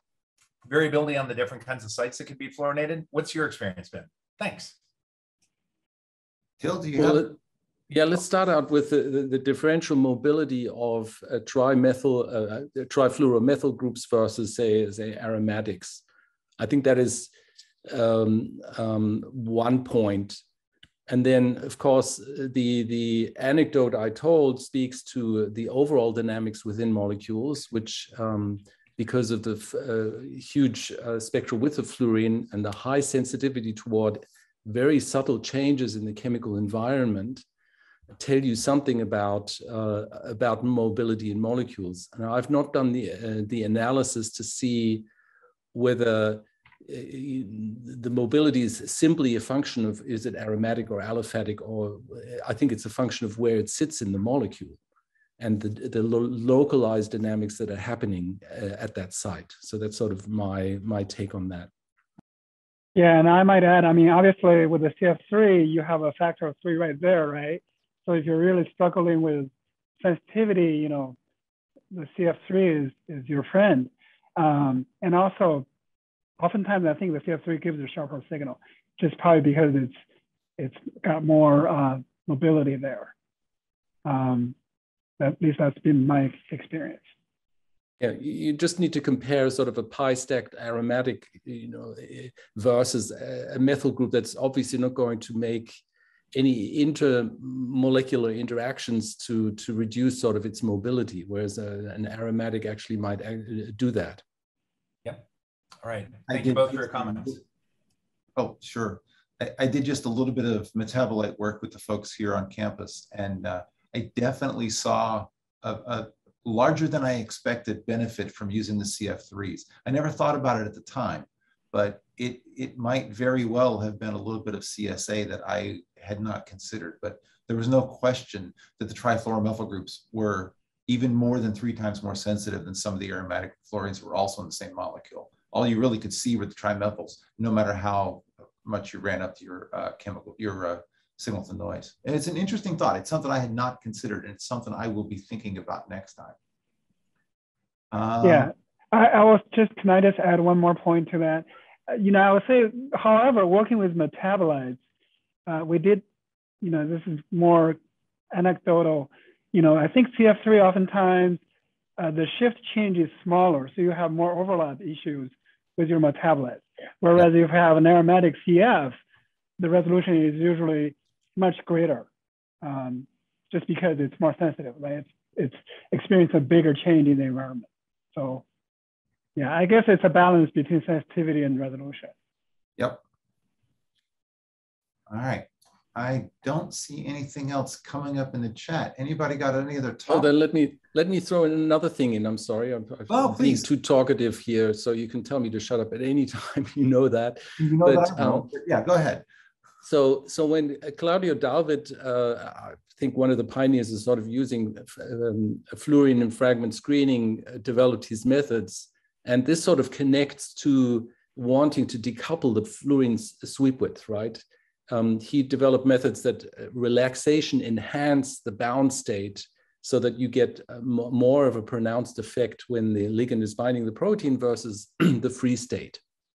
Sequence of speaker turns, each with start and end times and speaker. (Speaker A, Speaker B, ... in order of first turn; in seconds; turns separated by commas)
Speaker A: 0.6-4.8, Speaker B: 6.6-7.3, Speaker C: 7.0-7.3, Speaker C: 7.9-16.0, Speaker C: 16.6-17.3, Speaker C: 17.9-20.4, Speaker C: 21.1-37.4, Speaker C: 38.1-45.0, Speaker C: 45.7-54.8, Speaker C: 55.4-61.7, Speaker D: 62.9-71.2, Speaker D: 71.9-75.7, Speaker D: 76.4-80.0, Speaker D: 80.6-83.1, Speaker D: 84.0-84.5, Speaker D: 85.2-87.0, Speaker C: 88.0-95.8, Speaker C: 96.3-104.2, Speaker A: 105.8-107.4, Speaker B: 106.3-107.4, Speaker B: 108.3-146.3, Speaker B: 147.9-148.5, Speaker D: 148.2-154.8, Speaker D: 155.5-156.0, Speaker D: 156.6-157.8, Speaker D: 158.3-161.4, Speaker D: 162.0-168.9, Speaker D: 169.6-172.1, Speaker D: 172.6-178.4, Speaker D: 179.3-182.1, Speaker B: 185.1-190.3, Speaker C: 190.1-198.5, Speaker B: 193.1-193.7, Speaker B: 197.6-199.2, Speaker C: 199.8-226.0